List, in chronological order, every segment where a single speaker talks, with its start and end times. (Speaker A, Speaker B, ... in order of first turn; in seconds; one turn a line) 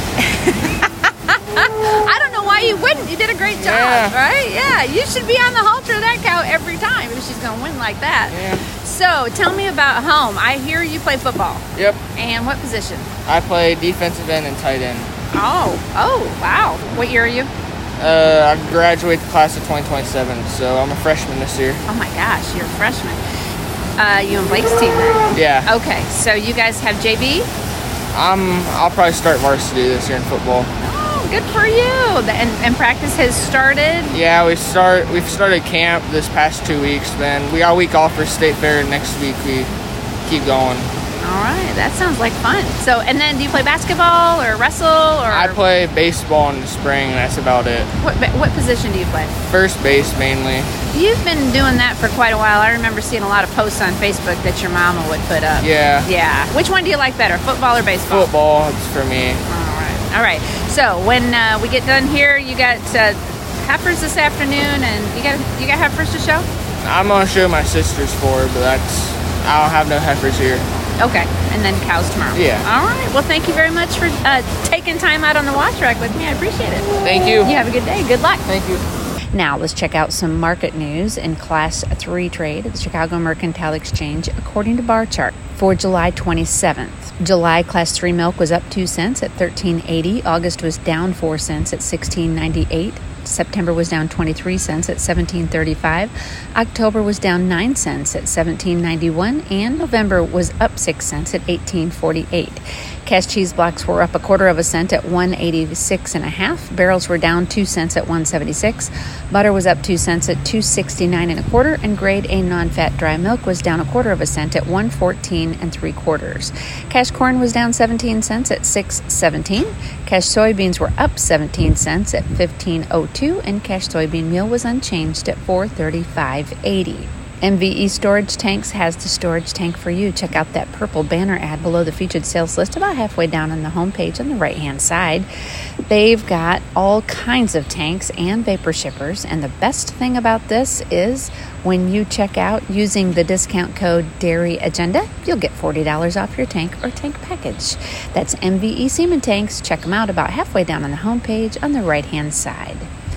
Speaker A: 0.2-11.6
Speaker B: 3.6-4.2
Speaker B: 8.3-8.7
Speaker A: 12.2-13.1
Speaker B: 13.3-15.1
Speaker A: 15.3-17.5
Speaker B: 18.0-21.8
Speaker A: 21.9-23.2
Speaker A: 24.0-27.5
Speaker B: 25.3-25.7
Speaker B: 28.1-30.7
Speaker A: 30.8-34.2
Speaker B: 34.1-39.7
Speaker B: 40.2-40.9
Speaker A: 41.2-45.6
Speaker B: 45.3-47.9
Speaker A: 48.0-49.3
Speaker B: 49.5-50.7
Speaker A: 50.9-58.3
Speaker B: 55.6-56.1
Speaker B: 58.1-59.4
Speaker A: 59.5-66.5
Speaker B: 66.8-70.7
Speaker A: 71.0-78.6
Speaker B: 72.3-72.7
Speaker B: 77.0-77.5
Speaker B: 78.5-78.8
Speaker A: 79.3-135.3
Speaker A: 135.9-152.9